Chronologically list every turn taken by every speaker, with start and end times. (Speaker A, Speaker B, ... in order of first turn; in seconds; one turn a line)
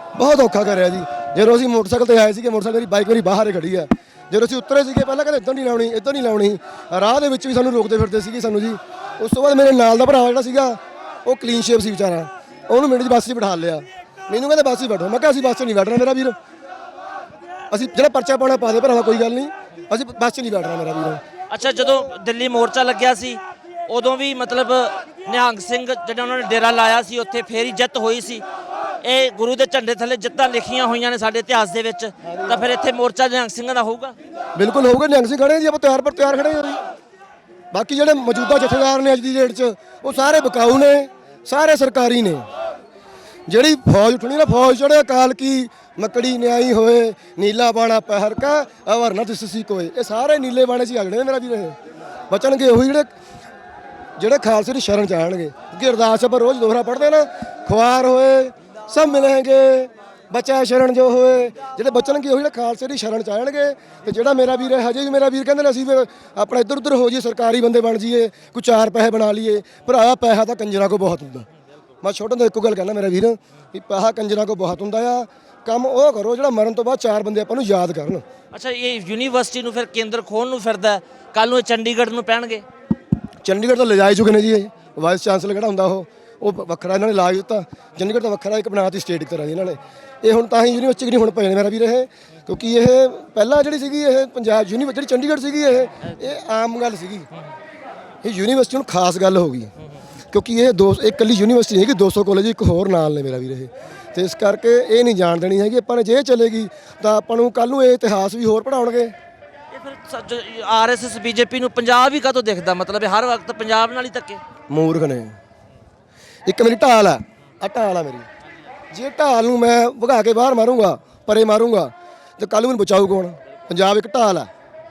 Speaker A: 0.2-16.4
Speaker A: 17.7-21.2
Speaker B: 21.5-28.4
Speaker B: 29.0-34.1
Speaker A: 32.3-32.6
Speaker A: 34.6-36.8
Speaker A: 37.7-42.5
Speaker A: 43.5-51.8
Speaker A: 52.3-53.1
Speaker A: 54.2-71.5
Speaker A: 72.0-78.2
Speaker B: 78.5-82.6
Speaker A: 83.4-97.3
Speaker A: 98.2-99.7
Speaker A: 100.3-109.1
Speaker B: 109.7-114.4
Speaker A: 114.7-115.4
Speaker A: 116.5-118.3
Speaker A: 118.9-124.5